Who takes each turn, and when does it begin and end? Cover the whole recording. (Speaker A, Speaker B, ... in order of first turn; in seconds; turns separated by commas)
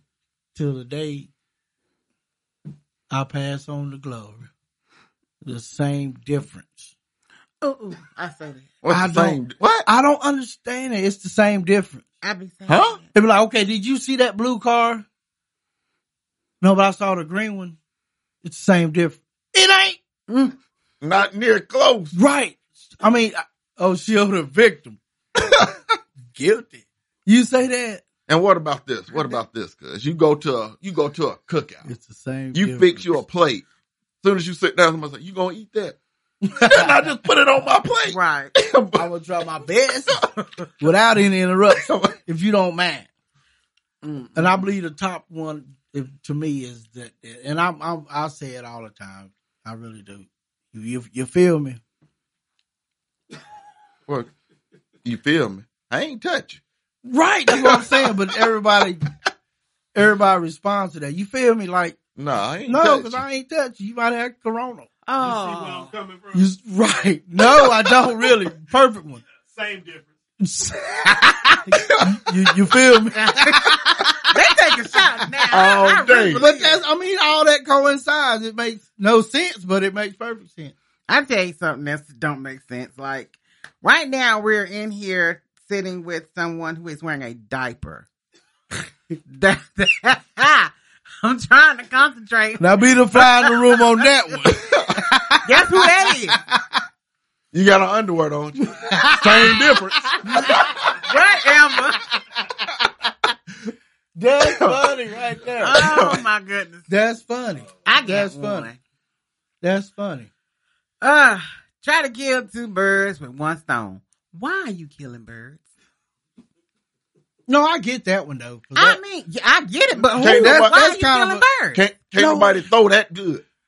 Speaker A: 0.6-1.3, Speaker A: 3.1-4.5, Speaker A: 5.4-6.9, Speaker B: 7.6-8.7, Speaker C: 8.8-9.9, Speaker A: 8.9-12.0, Speaker B: 12.2-13.0, Speaker C: 12.7-13.0, Speaker A: 13.1-15.1, Speaker A: 16.6-17.8, Speaker A: 18.4-20.0, Speaker B: 20.3-20.5, Speaker C: 21.0-22.2, Speaker A: 22.1-25.7, Speaker A: 26.3-28.0, Speaker C: 28.3-31.9, Speaker B: 29.1-29.4, Speaker A: 31.9-33.2, Speaker C: 32.5-33.6, Speaker C: 34.2-36.0, Speaker A: 36.5-37.0, Speaker C: 36.6-39.0, Speaker B: 38.1-38.5, Speaker A: 39.0-40.2, Speaker A: 40.8-43.1, Speaker B: 44.0-44.7, Speaker A: 44.4-51.8, Speaker C: 55.0-56.6, Speaker A: 57.0-59.0, Speaker C: 57.6-58.1, Speaker A: 60.0-62.0, Speaker C: 62.2-63.2, Speaker A: 62.7-64.9, Speaker B: 65.1-65.9, Speaker D: 65.2-66.5, Speaker A: 66.3-69.2, Speaker D: 69.4-70.1, Speaker A: 70.4-71.2, Speaker B: 71.1-71.6, Speaker C: 71.8-72.2, Speaker A: 72.0-74.3, Speaker B: 73.1-76.8, Speaker C: 75.5-76.4, Speaker A: 76.3-80.7, Speaker B: 81.1-88.1, Speaker B: 89.1-93.8, Speaker A: 92.6-96.8, Speaker B: 95.5-96.4, Speaker C: 97.5-101.0, Speaker A: 98.9-100.6, Speaker B: 98.9-99.5, Speaker B: 100.4-102.0, Speaker A: 104.2-106.0, Speaker C: 104.5-104.8, Speaker B: 105.6-106.9, Speaker C: 105.7-106.2, Speaker A: 106.9-108.7, Speaker B: 107.9-108.8, Speaker A: 109.6-110.3, Speaker B: 111.0-115.6, Speaker A: 117.5-119.0, Speaker B: 118.8-121.8, Speaker C: 120.1-120.8, Speaker A: 120.1-121.4, Speaker C: 121.8-123.4, Speaker A: 122.2-122.6